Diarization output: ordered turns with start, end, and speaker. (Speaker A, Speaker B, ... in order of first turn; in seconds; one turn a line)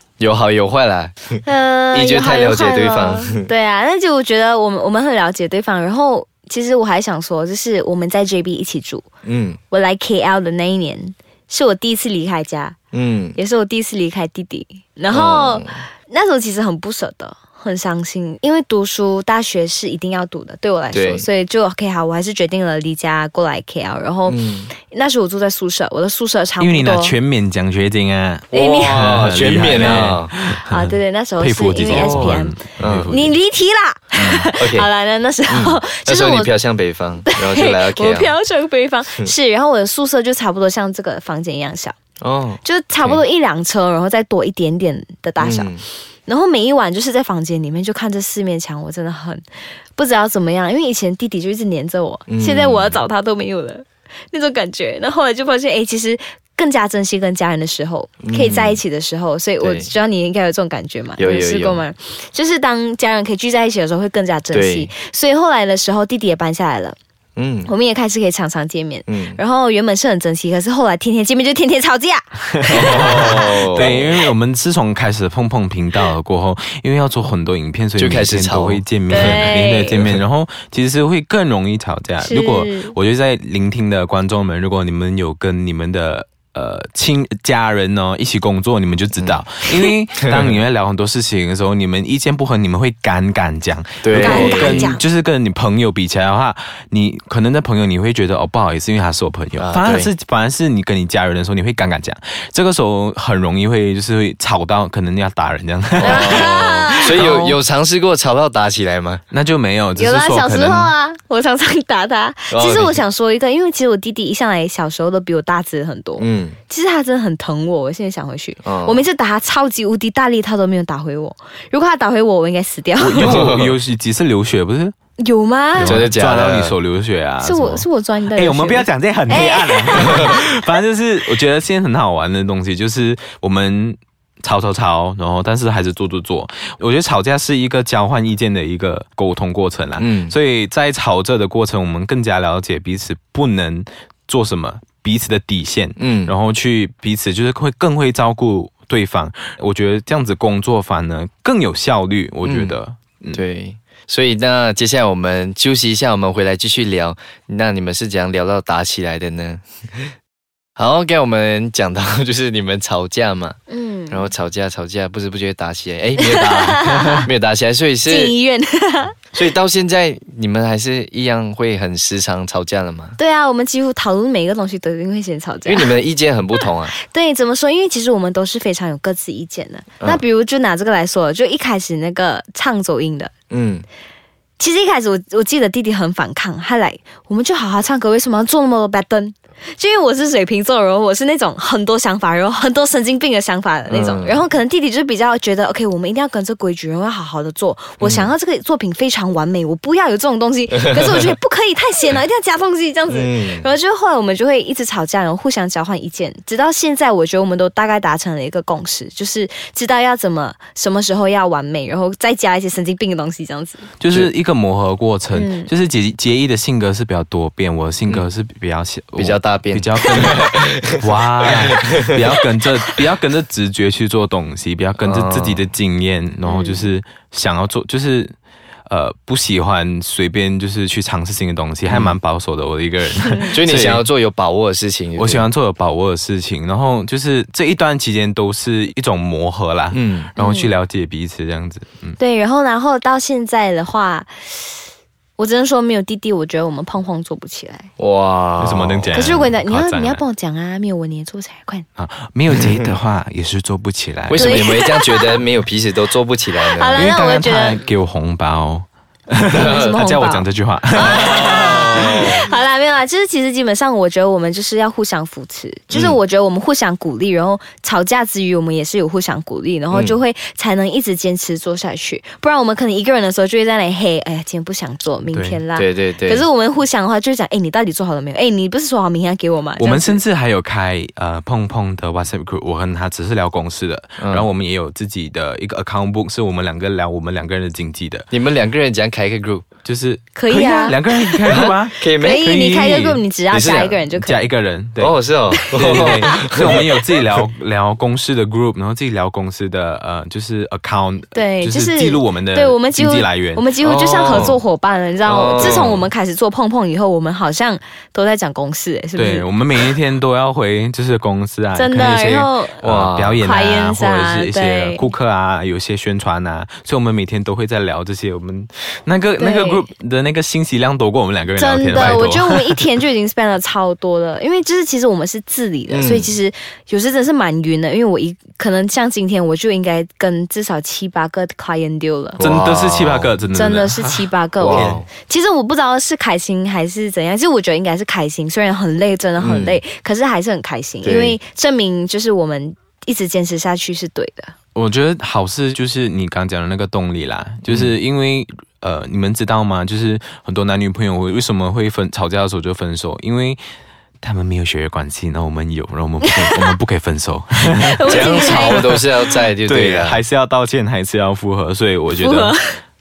Speaker A: 0.2-1.4
Speaker B: 1.4-9.1
Speaker A: 1.9-3.5
Speaker A: 9.2-9.6
Speaker B: 9.7-12.8
Speaker A: 12.9-13.4
Speaker B: 13.3-27.1
Speaker A: 15.1-15.8
Speaker A: 20.9-21.3
Speaker A: 24.3-24.7
Speaker C: 26.6-33.4
Speaker A: 28.5-30.3
Speaker B: 28.5-29.1
Speaker B: 29.6-36.5
Speaker A: 31.8-33.1
Speaker C: 34.2-34.5
Speaker A: 34.6-34.9
Speaker A: 35.5-38.3
Speaker B: 37.3-42.0
Speaker A: 42.2-43.2
Speaker B: 42.6-45.7
Speaker A: 45.4-45.8
Speaker B: 46.3-49.4
Speaker B: 50.0-67.0
Speaker A: 52.3-53.0
Speaker A: 58.2-58.8
Speaker A: 59.6-59.9
Speaker A: 61.2-61.8
Speaker A: 64.5-64.9
Speaker A: 67.4-67.7
Speaker B: 67.7-74.0
Speaker A: 69.1-69.4
Speaker C: 72.6-107.6
Speaker A: 72.7-74.0
Speaker A: 78.0-80.2
Speaker B: 79.1-80.0
Speaker B: 82.2-83.0
Speaker A: 89.2-90.4
Speaker A: 94.0-95.0
Speaker B: 94.2-95.0
Speaker A: 99.6-100.1
Speaker A: 106.0-109.2
Speaker B: 106.0-107.1
Speaker C: 109.3-110.9
Speaker B: 110.0-123.4
Speaker A: 112.5-113.0
Speaker A: 116.2-116.6
Speaker A: 118.6-119.0
Speaker C: 123.0-124.9
Speaker A: 123.2-123.7
Speaker B: 125.2-126.1
Speaker C: 125.8-153.4
Speaker A: 125.8-126.8
Speaker B: 127.4-130.3
Speaker A: 140.0-140.3
Speaker A: 146.0-146.3
Speaker A: 152.4-152.8
Speaker A: 153.3-160.1
Speaker A: 160.8-163.6
Speaker B: 163.7-164.3
Speaker A: 164.1-168.3
Speaker B: 166.2-167.2
Speaker B: 168.1-169.2
Speaker A: 169.3-173.2
Speaker B: 173.2-175.9
Speaker A: 175.7-176.9
Speaker B: 177.0-183.3
Speaker A: 183.5-183.8
Speaker B: 184.6-213.9
Speaker A: 193.9-194.4
Speaker A: 198.0-198.3
Speaker A: 203.1-203.7
Speaker C: 214.0-220.4
Speaker B: 215.3-215.7
Speaker A: 219.2-222.1
Speaker C: 221.0-228.3
Speaker A: 225.0-225.6
Speaker B: 226.5-226.9
Speaker C: 228.9-234.0
Speaker A: 231.9-232.2
Speaker B: 233.2-233.6
Speaker A: 233.5-235.5
Speaker C: 235.2-242.2
Speaker A: 239.9-240.3
Speaker B: 240.4-240.7
Speaker B: 242.2-244.8
Speaker B: 245.4-247.9
Speaker A: 248.0-249.3
Speaker C: 248.6-250.2
Speaker B: 249.1-251.9
Speaker C: 252.0-254.7
Speaker A: 254.3-257.0
Speaker B: 254.4-255.4
Speaker B: 256.6-257.8
Speaker C: 256.9-262.4
Speaker B: 259.5-280.2
Speaker A: 259.5-259.9
Speaker A: 261.0-262.5
Speaker A: 265.9-266.2
Speaker A: 269.9-270.2
Speaker C: 275.3-275.6
Speaker A: 275.8-276.4
Speaker C: 279.8-288.3
Speaker A: 284.2-284.5
Speaker A: 288.3-289.6
Speaker C: 289.8-293.2
Speaker B: 290.4-291.0
Speaker A: 291.4-292.5
Speaker B: 292.2-294.4
Speaker A: 293.5-294.1
Speaker C: 294.1-303.6
Speaker A: 295.0-296.9
Speaker B: 295.9-296.3
Speaker B: 301.3-309.9
Speaker A: 303.8-304.6
Speaker A: 305.2-306.0
Speaker C: 305.6-306.0
Speaker C: 309.2-322.8
Speaker B: 311.8-312.9
Speaker A: 312.8-313.4
Speaker B: 313.4-315.1
Speaker B: 319.4-319.9
Speaker B: 321.6-332.4
Speaker A: 325.9-326.4
Speaker A: 332.4-333.3
Speaker C: 332.4-335.0
Speaker B: 333.5-344.5
Speaker A: 334.6-335.1
Speaker A: 339.4-339.8
Speaker A: 341.0-341.4
Speaker C: 344.8-353.6
Speaker A: 347.7-347.9
Speaker C: 354.2-362.6
Speaker B: 356.2-356.8
Speaker B: 357.6-358.9
Speaker A: 358.1-360.2
Speaker B: 362.2-362.8